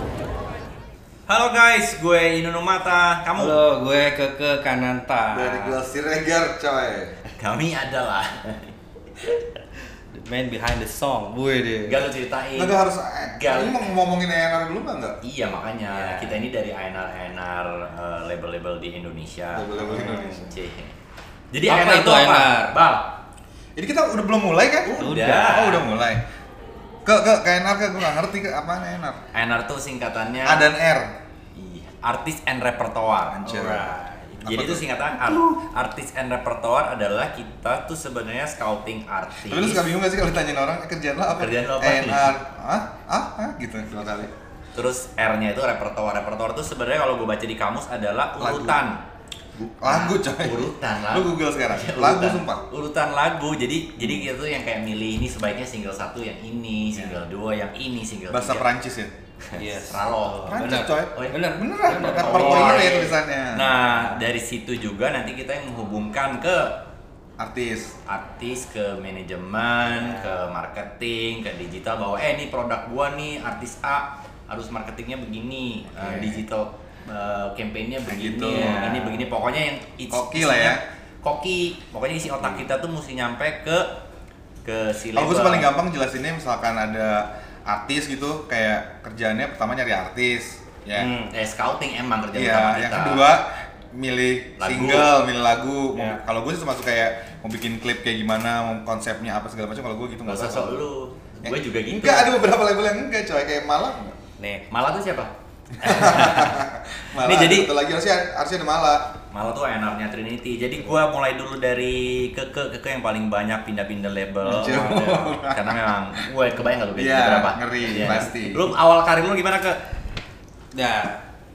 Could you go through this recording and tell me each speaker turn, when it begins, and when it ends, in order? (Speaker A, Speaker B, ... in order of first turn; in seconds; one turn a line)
Speaker A: 1.3-3.6
Speaker B: 3.4-5.8
Speaker C: 5.3-7.2
Speaker A: 7.4-8.7
Speaker B: 10.1-12.0
Speaker A: 11.8-12.8
Speaker C: 12.5-15.2
Speaker A: 13.3-13.9
Speaker A: 15.2-19.8
Speaker B: 15.9-16.4
Speaker C: 19.5-20.6
Speaker B: 19.8-20.5
Speaker A: 20.4-20.9
Speaker A: 21.5-23.2
Speaker B: 21.6-22.8
Speaker C: 23.8-26.2
Speaker A: 24.9-25.8
Speaker B: 25.0-25.5
Speaker C: 27.0-29.2
Speaker A: 29.3-30.7
Speaker C: 30.4-31.1
Speaker A: 31.5-33.8
Speaker C: 33.3-34.8
Speaker B: 33.5-34.3
Speaker A: 34.4-39.9
Speaker C: 39.5-44.3
Speaker A: 41.3-42.4
Speaker A: 44.7-49.0
Speaker C: 48.4-48.8
Speaker C: 49.6-52.6
Speaker A: 49.8-58.7
Speaker C: 54.0-54.3
Speaker C: 56.9-57.2
Speaker C: 58.3-59.1
Speaker B: 59.5-63.0
Speaker A: 59.6-61.4
Speaker C: 60.5-63.7
Speaker A: 62.0-66.8
Speaker C: 67.4-67.9
Speaker A: 68.1-83.9
Speaker B: 69.9-70.4
Speaker C: 75.9-76.4
Speaker C: 78.1-79.0
Speaker B: 78.5-79.2
Speaker C: 80.1-80.8
Speaker A: 84.6-85.8
Speaker C: 85.1-91.1
Speaker B: 91.0-91.3
Speaker A: 91.3-93.2
Speaker C: 92.3-100.8
Speaker A: 94.6-95.1
Speaker B: 95.9-96.2
Speaker A: 100.2-102.3
Speaker C: 101.4-104.2
Speaker B: 104.4-104.7
Speaker A: 104.7-107.7
Speaker C: 105.8-109.1
Speaker A: 109.3-119.8
Speaker C: 114.4-115.8
Speaker C: 117.0-118.7
Speaker B: 120.7-121.2